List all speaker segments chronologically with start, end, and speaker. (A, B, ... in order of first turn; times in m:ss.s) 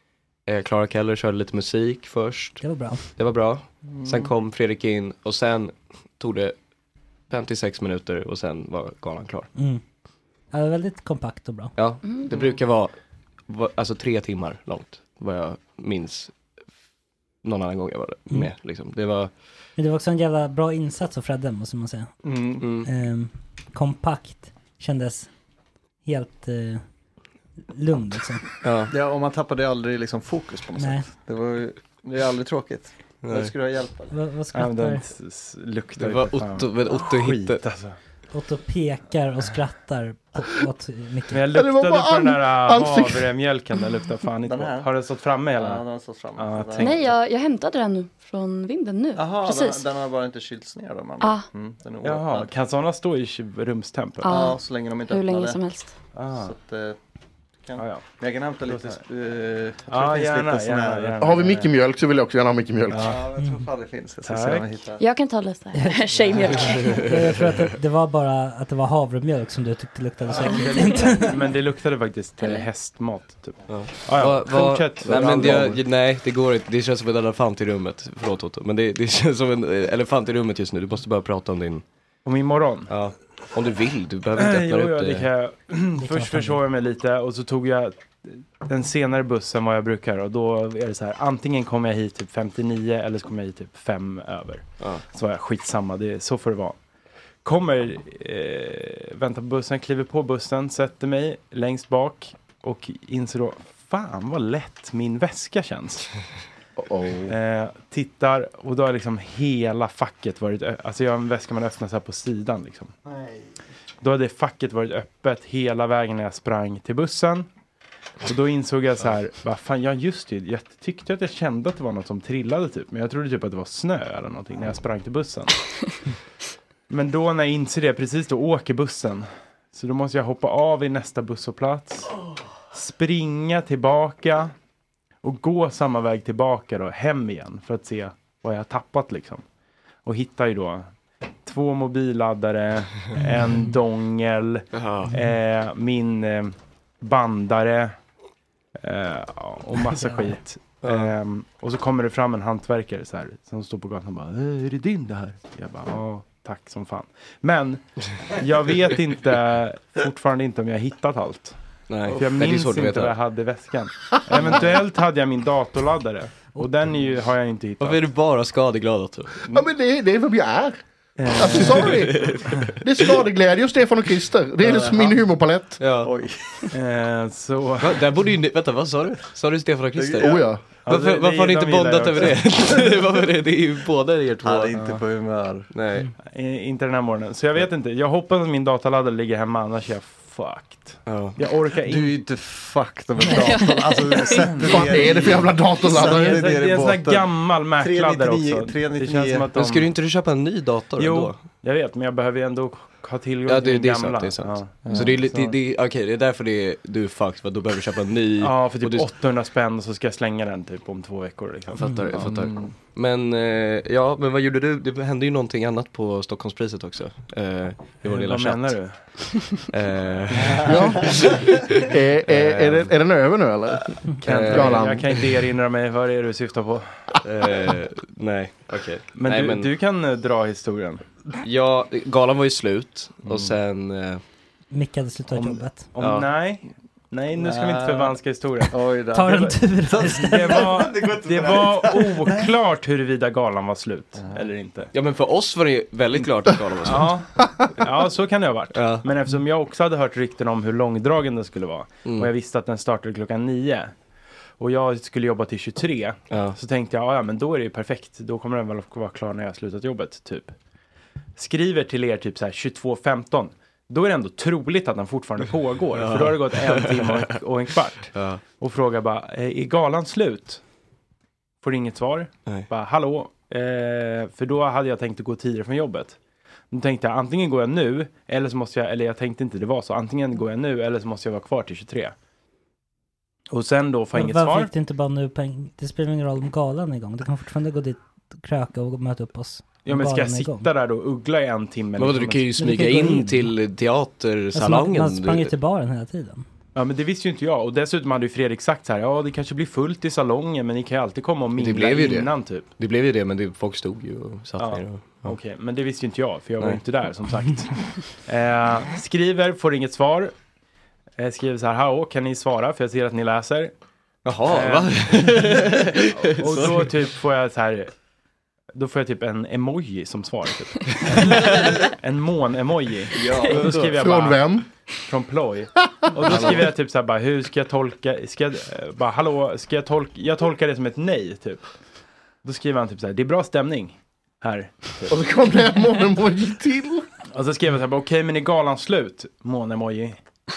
0:00.5-0:06.6 A
0:02.6-0:03.0 B
0:03.9-0:04.3 C
0:07.3-0:09.5 A
0:09.6-0:09.8 B
0:10.5-0:11.7 B
0:11.8-0:12.9 A
0:13.5-0:16.3 A
0:17.4-0:19.3 A
0:19.8-0:22.2 B
0:22.2-0:22.7 C
0:22.6-0:22.9 A
0:22.8-0:25.3 B
0:26.0-0:26.8 B
0:27.7-0:28.5 B
0:28.6-0:28.9 A
0:28.9-0:34.1 C
0:30.8-0:31.1 B
0:33.2-0:33.5 A
0:34.1-0:35.1 B
0:34.5-0:38.0 D
0:36.0-0:37.6 A
0:38.3-0:41.4 B
0:41.3-0:45.8 D
0:41.5-0:43.3 E
0:44.4-0:47.1 C
0:46.4-0:47.0 D
0:46.8-0:49.9 F
0:49.2-0:52.5 C
0:51.2-0:51.5 F
0:52.0-0:54.3 D
0:54.2-0:55.9 F
0:54.2-0:55.6 C
0:56.2-0:56.5 D
0:56.3-0:57.0 C
0:57.6-1:01.3 C
0:57.8-0:58.1 D
0:58.7-0:59.0 D
0:59.9-1:01.7 D
1:01.2-1:03.2 E
1:02.9-1:03.2 D
1:02.9-1:05.0 C
1:04.3-1:04.7 D
1:05.0-1:07.1 F
1:05.8-1:06.0 B
1:06.8-1:07.5 A
1:06.9-1:11.3 B
1:10.6-1:15.8 D
1:13.7-1:21.8 A
1:22.2-1:22.9 D
1:22.9-1:25.3 A
1:24.4-1:36.8 D
1:26.0-1:26.6 B
1:37.4-1:46.1 D
1:46.8-1:47.4 E
1:47.3-1:52.9 D
1:53.1-1:53.5 C
1:54.0-1:57.5 D
1:58.2-2:05.6 D
2:06.9-2:12.1 D
2:12.7-2:14.5 D
2:15.2-2:19.4 D
2:20.0-2:20.9 D
2:21.4-2:28.0 D
2:24.7-2:25.2 A
2:28.8-2:48.0 D
2:30.8-2:31.1 A
2:41.9-2:43.2 A
2:44.4-2:44.7 A
2:47.8-2:49.4 A
2:49.5-2:50.8 E
2:51.2-2:52.0 D
2:51.3-2:55.8 E
2:51.9-2:52.8 A
2:54.6-2:55.2 C
2:55.8-2:56.1 A
2:56.0-2:56.7 C
2:56.7-2:58.0 D
2:57.8-3:04.8 A
3:00.0-3:00.6 C
3:00.2-3:00.6 E
3:00.9-3:02.4 D
3:04.4-3:05.7 C
3:05.7-3:06.1 A
3:06.2-3:12.2 D
3:11.0-3:11.4 A
3:11.8-3:19.5 C
3:13.3-3:14.4 F
3:14.7-3:16.4 E
3:15.8-3:19.9 D
3:19.5-3:21.4 A
3:21.0-3:25.6 D
3:23.5-3:29.1 A
3:24.8-3:25.2 C
3:28.4-3:31.9 D
3:31.7-3:42.9 A
3:32.2-3:32.7 C
3:38.0-3:39.4 D
3:40.4-3:41.1 C
3:40.6-3:45.1 E
3:44.2-3:45.2 A
3:44.2-3:46.9 D
3:47.2-3:49.7 A
3:49.2-3:51.0 D
3:51.4-3:54.2 A
3:54.7-3:55.9 B
3:55.3-3:58.7 D
3:56.0-3:56.3 A
3:57.4-3:58.2 C
3:58.7-4:02.4 C
3:59.1-4:00.7 B
4:00.1-4:04.9 D
4:04.2-4:04.5 C
4:04.9-4:07.2 A
4:06.8-4:13.9 D
4:08.7-4:09.1 A
4:12.0-4:12.3 A
4:14.6-4:20.6 D
4:16.3-4:16.6 A
4:21.4-4:30.6 D
4:25.9-4:27.4 A
4:28.1-4:28.4 A
4:31.6-4:36.2 D
4:32.4-4:32.7 A
4:36.7-4:42.2 D
4:43.5-4:44.7 D
4:44.1-4:50.7 B
4:49.9-4:52.6 D
4:52.0-4:55.5 A
4:52.6-4:53.6 B
4:54.5-4:56.4 B
4:56.8-5:02.7 D
5:01.6-5:05.4 A
5:04.6-5:10.3 D
5:11.2-5:13.7 D
5:14.2-5:17.1 A
5:14.4-5:17.9 D
5:18.8-5:21.4 D
5:21.1-5:21.7 A
5:22.0-5:24.5 D
5:23.2-5:23.5 C
5:23.2-5:24.0 A
5:23.9-5:24.7 E
5:25.1-5:31.7 D
5:26.2-5:26.7 A
5:32.4-5:35.1 D
5:35.1-5:37.0 E
5:37.3-5:40.2 D